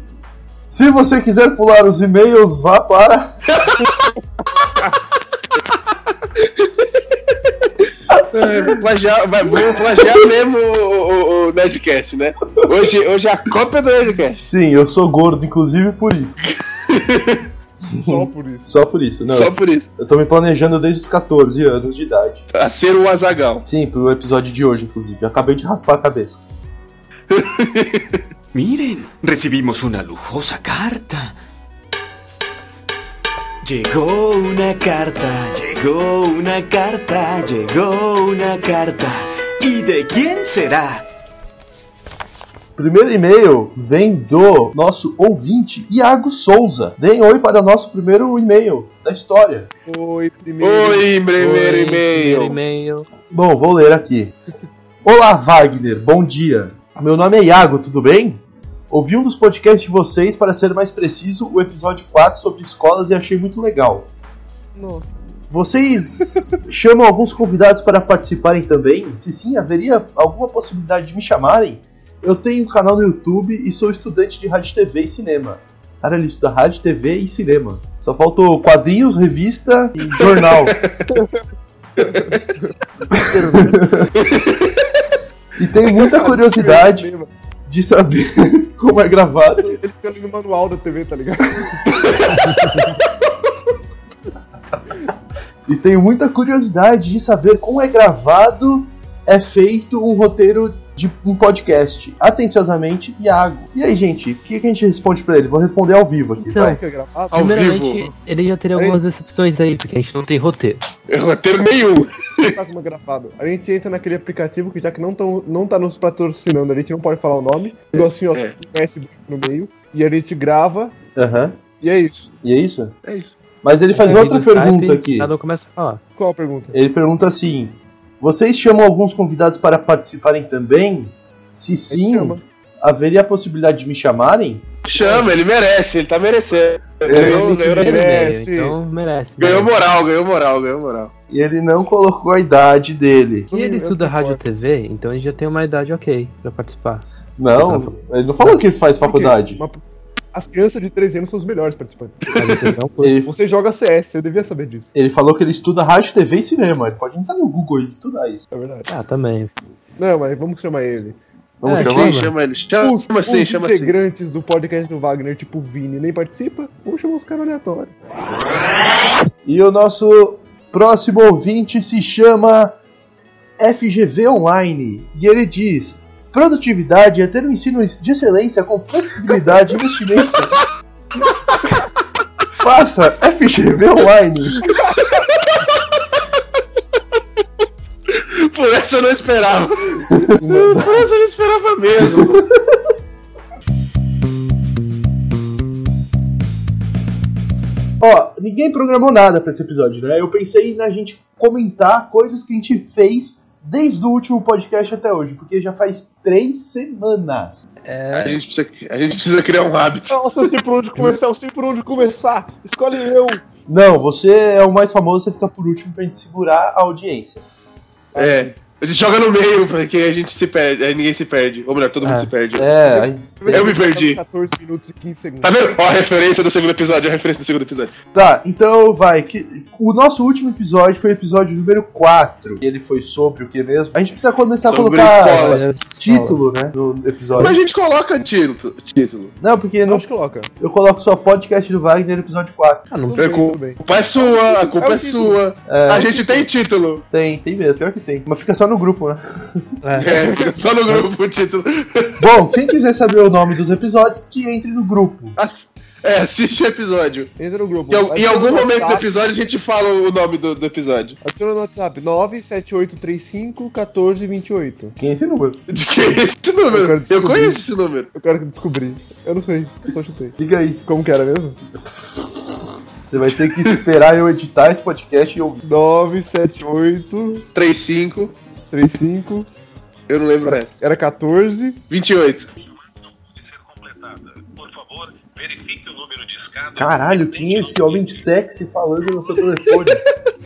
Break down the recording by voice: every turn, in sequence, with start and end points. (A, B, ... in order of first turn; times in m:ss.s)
0:00.7-0:03.3 A
0:03.6-0:04.1 B
0:08.1-0:08.8 A
0:08.3-0:14.5 B
0:09.6-0:10.0 A
0:14.4-0:16.4 A
0:16.9-0:17.5 B
0:17.9-0:22.4 A
0:18.0-0:18.7 C
0:19.3-0:19.9 B
0:22.5-0:23.7 B
0:23.7-0:26.4 A
0:27.3-0:28.2 B
0:28.5-0:31.4 D
0:33.6-0:41.0 D
0:42.8-0:49.7 A
0:49.9-0:51.2 C
0:50.6-0:52.6 B
0:51.4-0:53.1 E
0:53.3-0:54.3 A
0:55.0-1:04.1 A
1:04.8-1:05.2 C
1:05.5-1:20.8 A
1:20.1-1:21.0 B
1:22.0-1:22.4 B
1:22.1-1:24.1 C
1:24.2-1:24.9 B
1:25.6-1:27.1 A
1:26.0-1:27.3 C
1:27.7-1:29.8 A
1:29.6-1:32.0 C
1:32.0-1:32.6 B
1:32.6-1:32.9 C
1:35.7-1:46.8 A
1:46.5-1:47.5 C
1:47.3-1:48.1 B
1:47.4-1:50.8 E
1:48.7-1:49.0 C
1:51.1-1:52.5 B
1:52.5-2:01.0 C
1:58.0-1:58.5 B
2:01.2-2:01.6 A
2:01.8-2:02.3 C
2:02.4-2:02.9 A
2:03.0-2:03.4 B
2:03.6-2:05.3 A
2:03.9-2:06.0 E
2:06.2-2:06.8 C
2:06.7-2:14.6 A
2:11.9-2:12.4 C
2:14.8-2:18.0 B
2:15.0-2:15.4 C
2:17.1-2:17.9 A
2:17.1-2:18.8 C
2:17.7-2:19.8 E
2:19.4-2:21.1 B
2:21.3-2:23.5 A
2:23.5-2:24.4 C
2:23.5-2:28.6 E
2:27.4-2:29.6 A
2:29.0-2:29.8 C
2:30.3-2:32.5 C
2:32.4-2:33.2 E
2:33.0-2:33.3 A
2:33.2-2:34.9 C
2:34.9-2:38.4 A
2:38.5-2:38.9 C
2:38.9-2:39.5 E
2:40.0-2:41.2 C
2:41.6-2:42.2 A
2:41.6-2:42.3 E
2:41.7-2:44.0 B
2:42.8-2:47.9 C
2:49.4-2:52.7 A
2:53.6-3:00.6 A
3:02.6-3:04.6 A
3:04.7-3:05.3 B
3:08.1-3:12.5 B
3:10.2-3:11.0 A
3:18.0-3:27.6 A
3:27.8-3:28.4 E
3:28.1-3:30.1 B
3:30.1-3:33.4 C
3:33.7-3:37.4 A
3:38.2-3:38.5 C
3:38.2-3:42.7 B
3:42.0-3:42.3 E
3:42.6-3:43.6 A
3:42.9-3:45.8 C
3:43.5-3:44.2 B
3:45.4-3:47.9 B
3:48.1-3:57.6 A
3:54.6-3:55.6 B
3:55.4-3:56.4 E
3:57.4-3:59.3 B
3:59.4-4:00.1 A
3:59.9-4:00.5 C
4:00.6-4:02.8 A
4:02.9-4:03.2 E
4:03.0-4:05.4 C
4:03.2-4:07.0 B
4:05.7-4:06.3 A
4:07.1-4:09.6 A
4:09.8-4:10.1 E
4:10.0-4:12.1 B
4:12.2-4:15.4 A
4:15.4-4:17.3 B
4:17.4-4:19.1 C
4:17.9-4:21.2 B
4:21.2-4:25.0 C
4:25.0-4:25.6 A
4:25.7-4:28.1 B
4:26.7-4:31.6 C
4:30.4-4:30.8 A
4:33.1-4:35.6 A
4:35.6-4:37.5 C
4:37.6-4:38.4 B
4:38.7-4:39.5 C
4:40.1-4:40.7 B
4:40.4-4:41.8 C
4:41.9-4:42.5 B
4:43.7-4:48.2 B
4:46.8-4:50.0 A